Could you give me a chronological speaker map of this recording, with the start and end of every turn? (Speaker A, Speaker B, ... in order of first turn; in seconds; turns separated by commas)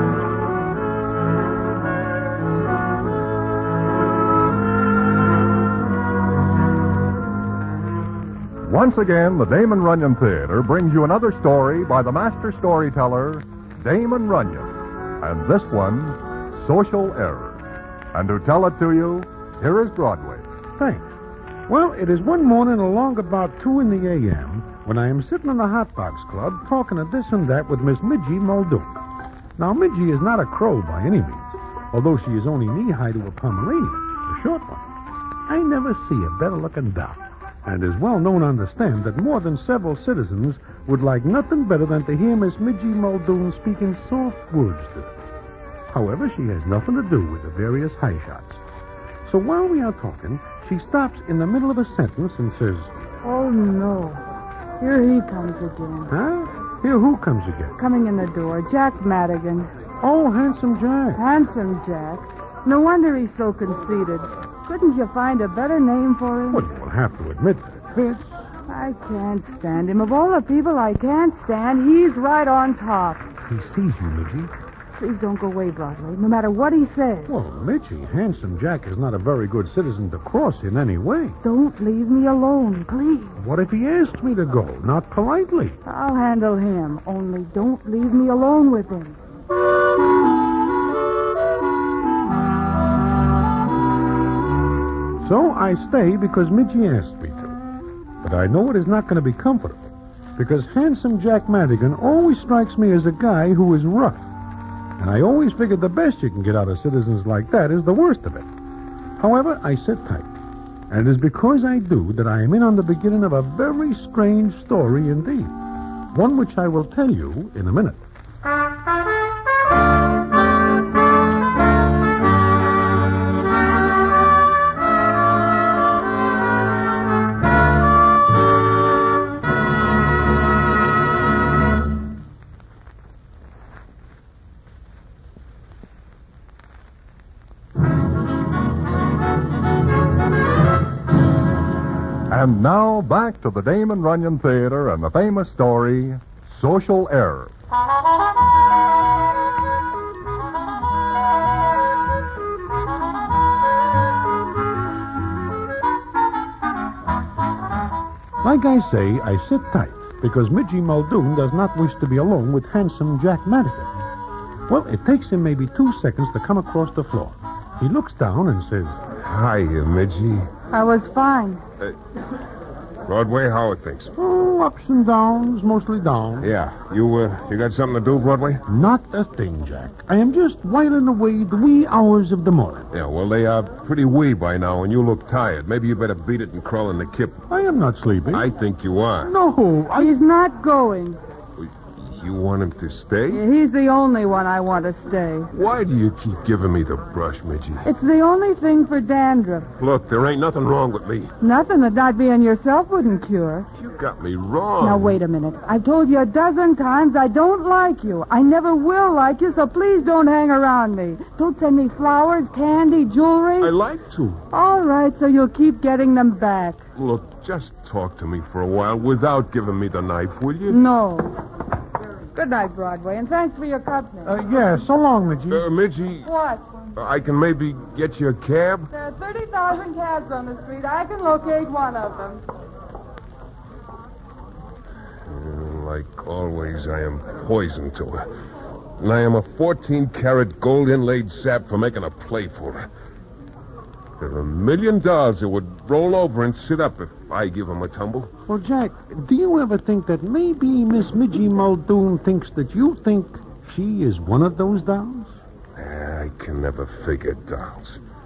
Speaker A: 8.6-17.6, Speaker A: 18.1-20.4, Speaker B: 20.8-21.1, Speaker B: 21.7-29.0, Speaker B: 29.6-34.9, Speaker B: 35.5-45.1, Speaker B: 45.9-48.6, Speaker B: 49.2-52.9, Speaker C: 53.2-54.2, Speaker C: 54.8-56.1, Speaker B: 56.1-57.8, Speaker C: 57.8-59.7, Speaker B: 60.0-61.2, Speaker C: 61.1-66.7, Speaker B: 66.5-68.4, Speaker C: 68.7-73.2, Speaker B: 73.4-74.5, Speaker C: 75.0-77.3, Speaker B: 77.2-81.4, Speaker C: 81.4-83.4, Speaker B: 83.4-85.8, Speaker C: 85.8-89.2, Speaker B: 95.2-97.6, Speaker B: 98.2-104.3, Speaker B: 105.0-108.5, Speaker B: 109.2-110.3, Speaker B: 110.9-115.6, Speaker B: 116.1-118.0, Speaker A: 142.3-147.5, Speaker B: 158.4-163.9, Speaker B: 164.7-169.0, Speaker D: 169.1-170.5, Speaker C: 170.7-171.6, Speaker D: 173.1-174.1, Speaker B: 174.2-176.5, Speaker D: 176.4-178.6, Speaker B: 178.7-182.9, Speaker D: 182.9-187.4, Speaker B: 187.5-188.5, Speaker D: 188.3-189.3, Speaker B: 189.2-190.1, Speaker C: 189.9-191.2, Speaker D: 191.6-193.4, Speaker C: 193.3-195.5, Speaker D: 195.5-197.8, Speaker C: 197.8-199.7, Speaker D: 199.8-201.3, Speaker C: 201.4-203.7, Speaker D: 203.8-205.2, Speaker C: 204.8-213.7, Speaker D: 213.6-214.4, Speaker C: 214.5-216.8, Speaker D: 216.9-220.8, Speaker C: 220.7-221.3, Speaker C: 222.3-224.4, Speaker B: 224.2-225.7, Speaker D: 225.5-226.3, Speaker C: 226.2-226.6, Speaker D: 226.9-228.9, Speaker C: 228.9-232.4, Speaker D: 235.2-238.3, Speaker D: 239.0-242.9, Speaker D: 244.2-248.3, Speaker B: 248.5-255.3, Speaker D: 255.8-258.0